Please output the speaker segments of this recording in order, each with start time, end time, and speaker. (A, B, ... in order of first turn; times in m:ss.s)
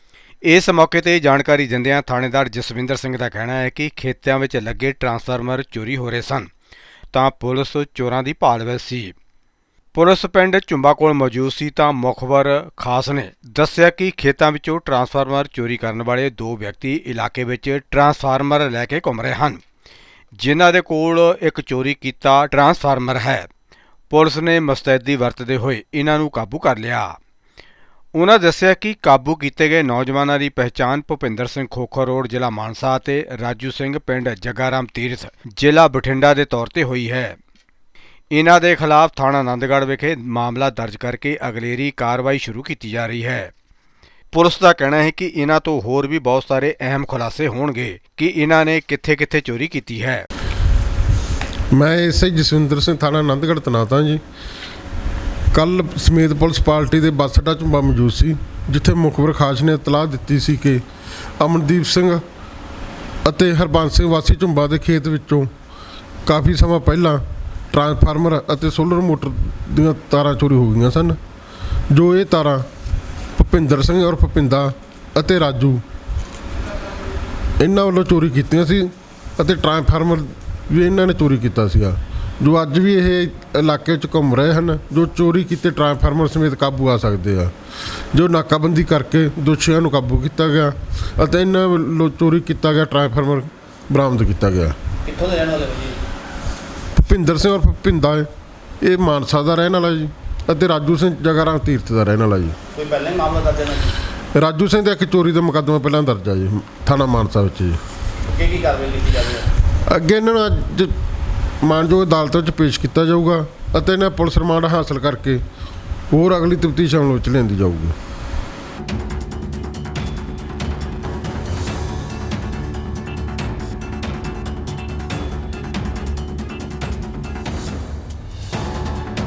0:00.4-0:06.5 A
0:07.1-0:09.1 A
0:09.9-0:19.6 A
0:20.4-0:23.5 A
0:24.1-0:27.2 A
0:28.1-0:37.4 A
0:38.3-0:43.5 A
0:44.3-0:50.3 A
0:51.7-0:54.2 B
0:55.5-1:00.8 B
1:01.4-1:02.2 B
1:03.2-1:05.5 B
1:06.3-1:11.2 B
1:11.9-1:12.7 B
1:13.4-1:15.8 B
1:17.6-1:27.5 B
1:28.1-1:34.8 B
1:35.1-1:36.0 C
1:37.0-1:38.3 B
1:38.8-1:42.6 B
1:42.8-1:43.9 C
1:44.4-1:47.8 B
1:48.3-1:49.5 C
1:49.9-1:50.9 B
1:51.6-1:55.4 B
1:56.1-1:58.0 B